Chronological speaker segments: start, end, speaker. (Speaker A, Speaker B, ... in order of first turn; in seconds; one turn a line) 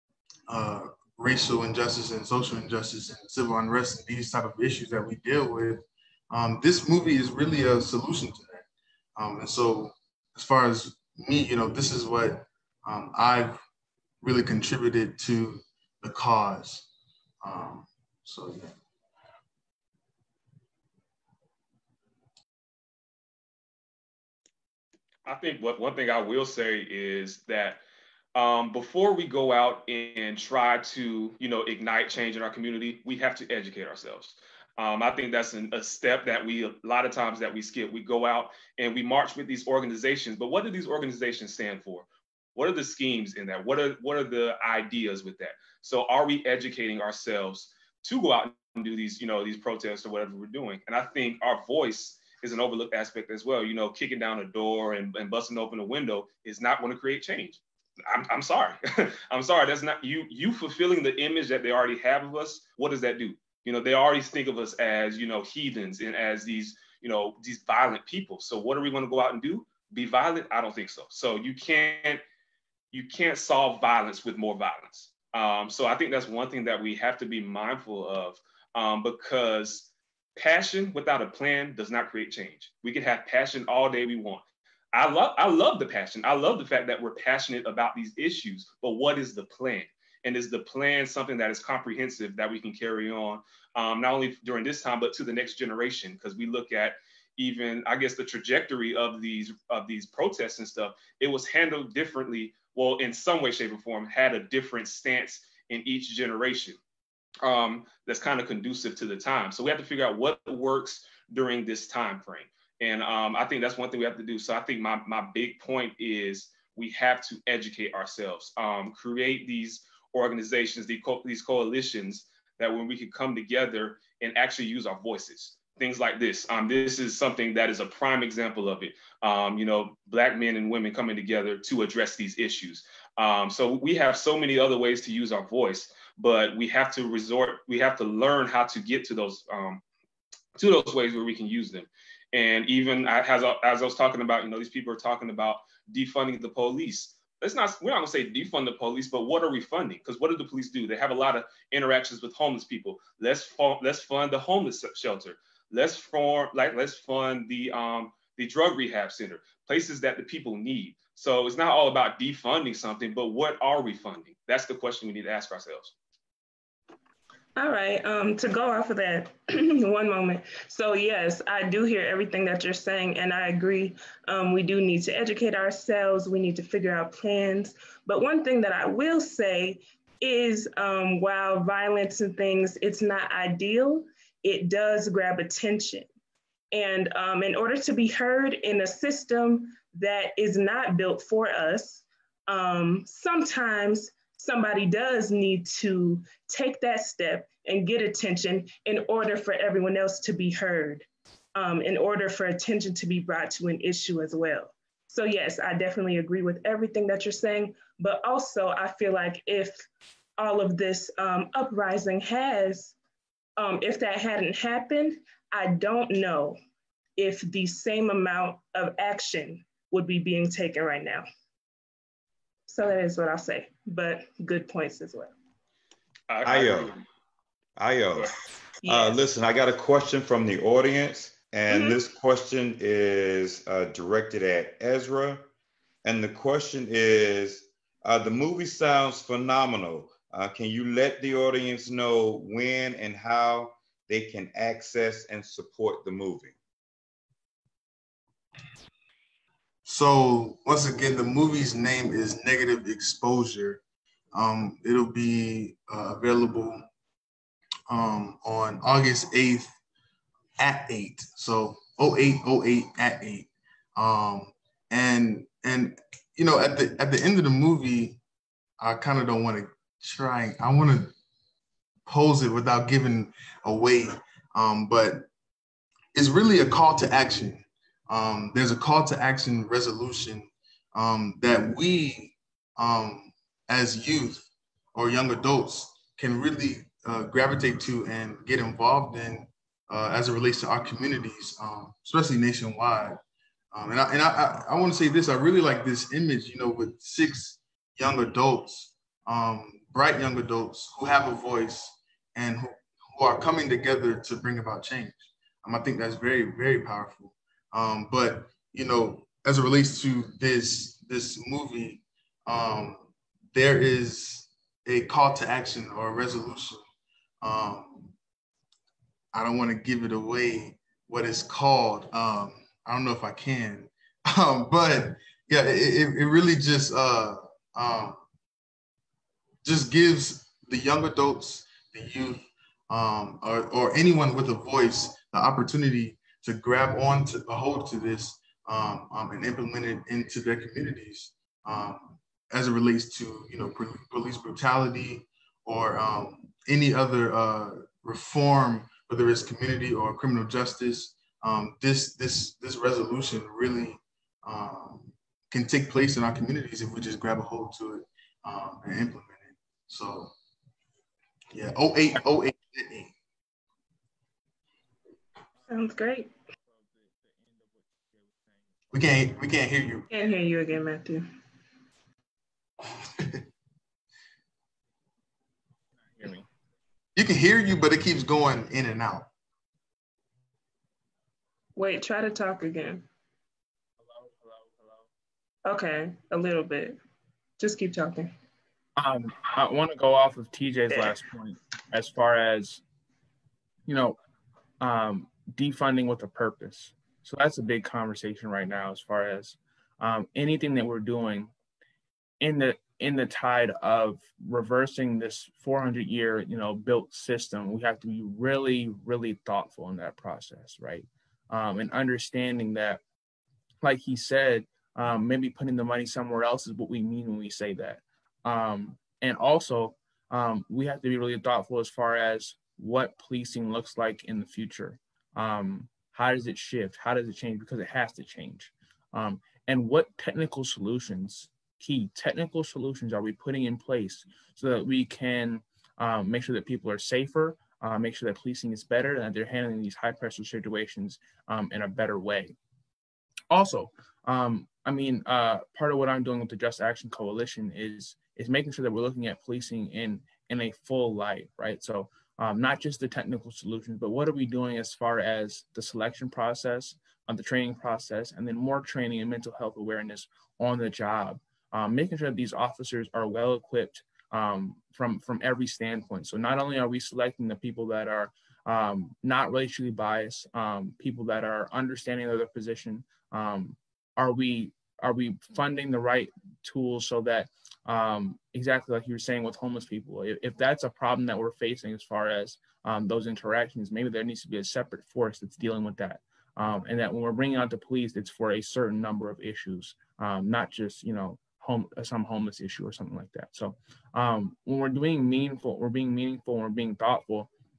Speaker A: 0.5-8.6
Speaker A: 9.2-13.6
Speaker A: 14.2-16.9
Speaker A: 17.4-18.7
Speaker B: 25.2-27.8
Speaker B: 28.3-72.2
Speaker B: 72.9-106.8
Speaker B: 107.4-139.8
Speaker B: 140.5-165.9
Speaker C: 167.6-186.1
Speaker C: 186.7-209.9
Speaker C: 210.4-212.9
Speaker C: 213.6-216.6
Speaker C: 217.2-221.2
Speaker C: 222.7-225.3
Speaker B: 226.3-227.0
Speaker D: 226.4-227.0
Speaker D: 227.8-235.5
Speaker C: 228.8-229.2
Speaker C: 231.7-232.0
Speaker D: 236.0-246.5
Speaker A: 249.8-253.8
Speaker A: 254.3-256.8
Speaker A: 257.9-259.7
Speaker A: 260.6-268.2
Speaker A: 268.8-271.1
Speaker A: 272.1-275.3
Speaker A: 276.1-293.2
Speaker A: 293.7-316.8
Speaker A: 317.4-318.1
Speaker A: 319.3-328.2
Speaker A: 329.6-360.3
Speaker A: 361.5-363.1
Speaker C: 365.7-366.3
Speaker E: 366.6-368.7
Speaker A: 368.9-370.1
Speaker C: 370.1-371.2
Speaker E: 376.1-376.5
Speaker A: 377.1-379.3
Speaker C: 381.8-383.1
Speaker E: 384.0-385.1
Speaker C: 385.7-387.0
Speaker C: 387.6-388.3
Speaker E: 389.0-392.8
Speaker C: 390.9-391.2
Speaker E: 393.9-394.1
Speaker E: 394.8-401.5
Speaker E: 402.4-413.0
Speaker E: 413.8-442.6
Speaker E: 443.5-497.5